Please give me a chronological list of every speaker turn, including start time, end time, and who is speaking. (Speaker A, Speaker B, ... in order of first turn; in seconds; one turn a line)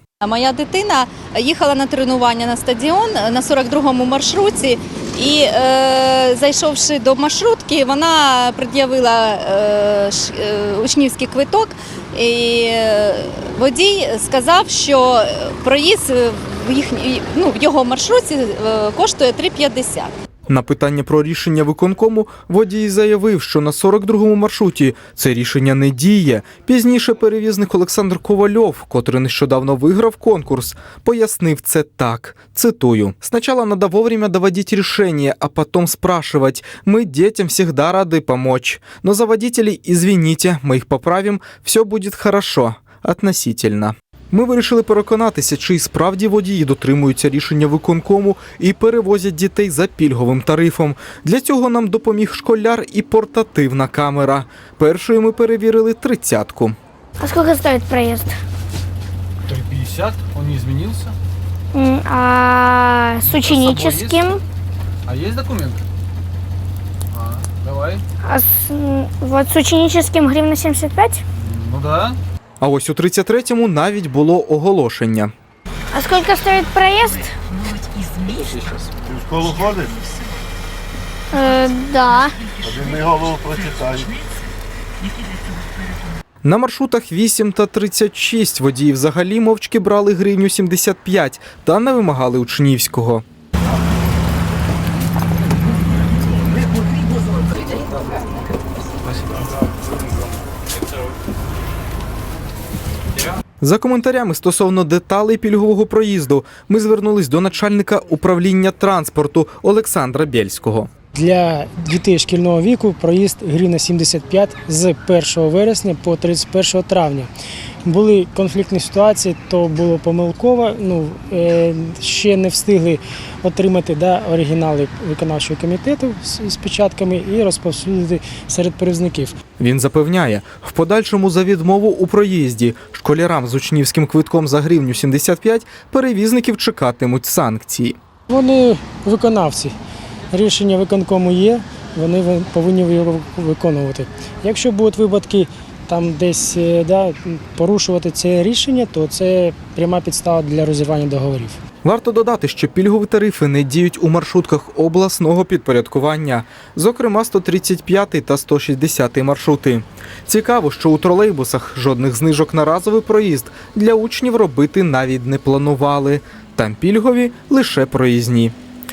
Speaker A: 0.2-20.1
Speaker B: 20.5-56.8
Speaker C: 57.2-58.4
Speaker D: 59.5-61.2
Speaker C: 61.7-64.4
Speaker D: 63.2-64.3
Speaker D: 65.1-65.8
Speaker D: 67.1-68.0
Speaker C: 68.2-71.2
Speaker D: 71.4-72.2
Speaker B: 72.6-75.3
Speaker C: 75.9-77.3
Speaker E: 79.0-80.0
Speaker C: 81.3-82.3
Speaker E: 82.6-84.1
Speaker B: 86.4-93.2
Speaker B: 103.6-110.9
Speaker F: 111.1-117.3
Speaker F: 117.8-129.4
Speaker B: 129.6-138.0
Speaker F: 138.3-139.8
Speaker F: 140.3-151.6
Speaker B: 151.8-168.6